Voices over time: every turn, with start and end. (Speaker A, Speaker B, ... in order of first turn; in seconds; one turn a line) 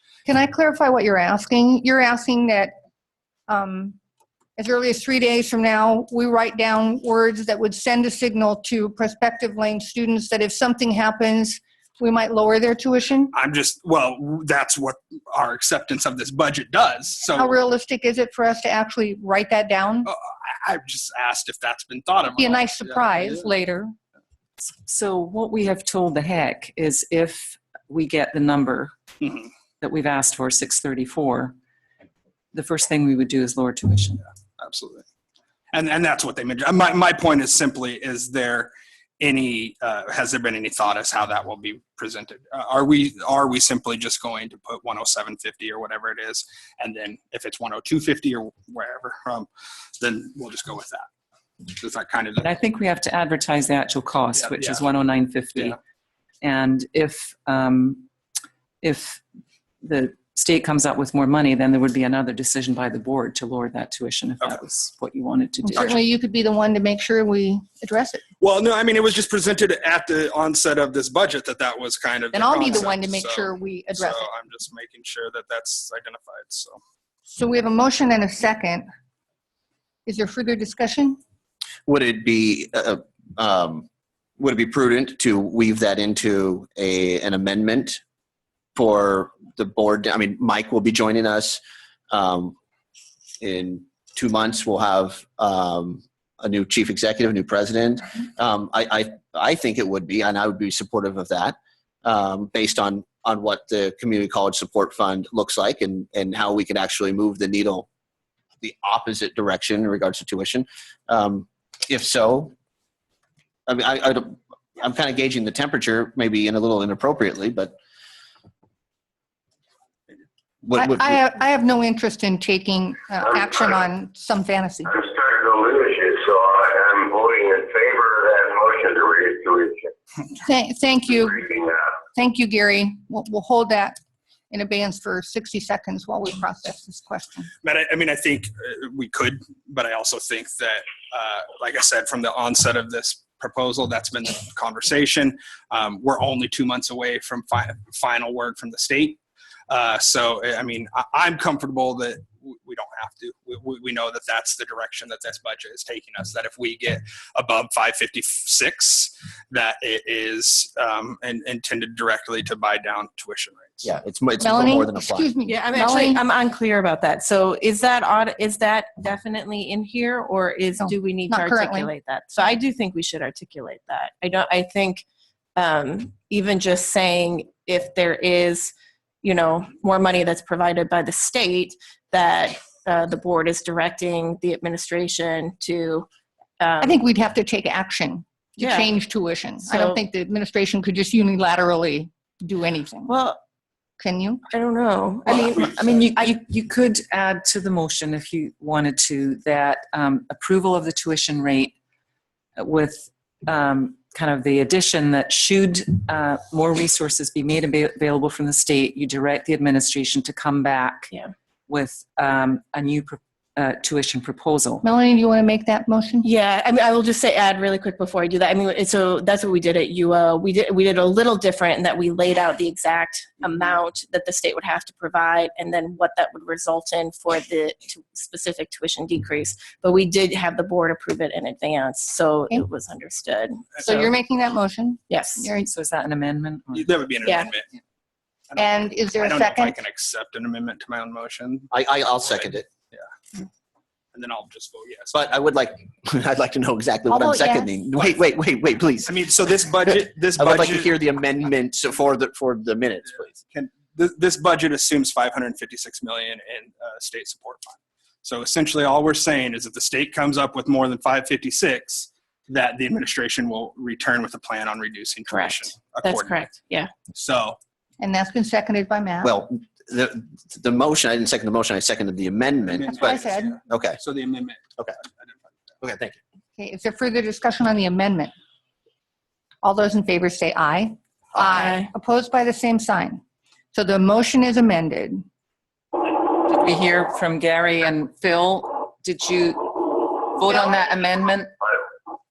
Speaker A: 0.2-2.7
Speaker A: 3.5-4.0
Speaker A: 4.6-13.3
Speaker B: 13.3-17.6
Speaker A: 17.4-20.1
Speaker B: 20.0-23.5
Speaker A: 22.4-23.9
Speaker C: 24.6-28.9
Speaker B: 29.2-29.5
Speaker C: 29.8-31.5
Speaker C: 32.5-34.2
Speaker B: 34.6-35.0
Speaker B: 35.7-49.5
Speaker B: 50.0-51.1
Speaker B: 51.7-52.5
Speaker C: 52.4-55.8
Speaker B: 54.4-54.8
Speaker C: 56.4-58.1
Speaker C: 58.8-59.2
Speaker C: 59.8-66.0
Speaker A: 65.6-68.2
Speaker B: 68.4-76.8
Speaker A: 72.3-74.3
Speaker A: 77.3-78.8
Speaker A: 80.0-81.2
Speaker D: 81.8-83.9
Speaker D: 84.4-88.0
Speaker D: 88.7-92.5
Speaker D: 93.4-107.9
Speaker D: 108.6-112.5
Speaker D: 113.7-117.8
Speaker D: 120.6-121.2
Speaker A: 120.7-124.9
Speaker E: 123.2-123.5
Speaker E: 124.8-129.9
Speaker A: 130.4-131.5
Speaker E: 131.1-132.0
Speaker A: 132.1-133.9
Speaker A: 134.5-137.5
Speaker B: 137.6-163.9
Speaker D: 163.8-165.3
Speaker A: 164.4-166.2
Speaker F: 165.4-175.0
Speaker A: 170.8-171.9
Speaker F: 175.6-186.1
Speaker F: 186.6-187.0
Speaker A: 186.8-193.1
Speaker F: 188.6-188.9
Speaker F: 189.6-190.0
Speaker F: 193.1-193.4
Speaker A: 194.0-194.4
Speaker F: 194.5-196.3
Speaker C: 195.6-201.7
Speaker C: 202.6-211.1
Speaker C: 211.7-214.8
Speaker A: 214.8-216.3
Speaker F: 216.2-233.7
Speaker A: 233.8-235.7
Speaker C: 233.9-234.1
Speaker F: 235.1-235.5
Speaker C: 235.4-236.9
Speaker B: 236.7-237.8
Speaker F: 237.2-237.5
Speaker B: 238.5-243.1
Speaker A: 238.6-239.8
Speaker D: 241.7-242.7
Speaker B: 244.1-245.4
Speaker D: 245.1-253.3
Speaker A: 247.1-247.7
Speaker B: 249.0-251.0
Speaker B: 253.1-266.4
Speaker F: 265.3-266.9
Speaker B: 267.1-267.6
Speaker A: 268.0-269.3
Speaker D: 269.2-274.0
Speaker B: 272.8-274.7
Speaker A: 272.9-273.6
Speaker B: 275.2-275.5
Speaker D: 275.8-276.2
Speaker A: 276.6-278.3
Speaker A: 279.6-283.2
Speaker F: 281.5-281.9
Speaker A: 283.7-285.2
Speaker C: 286.1-291.5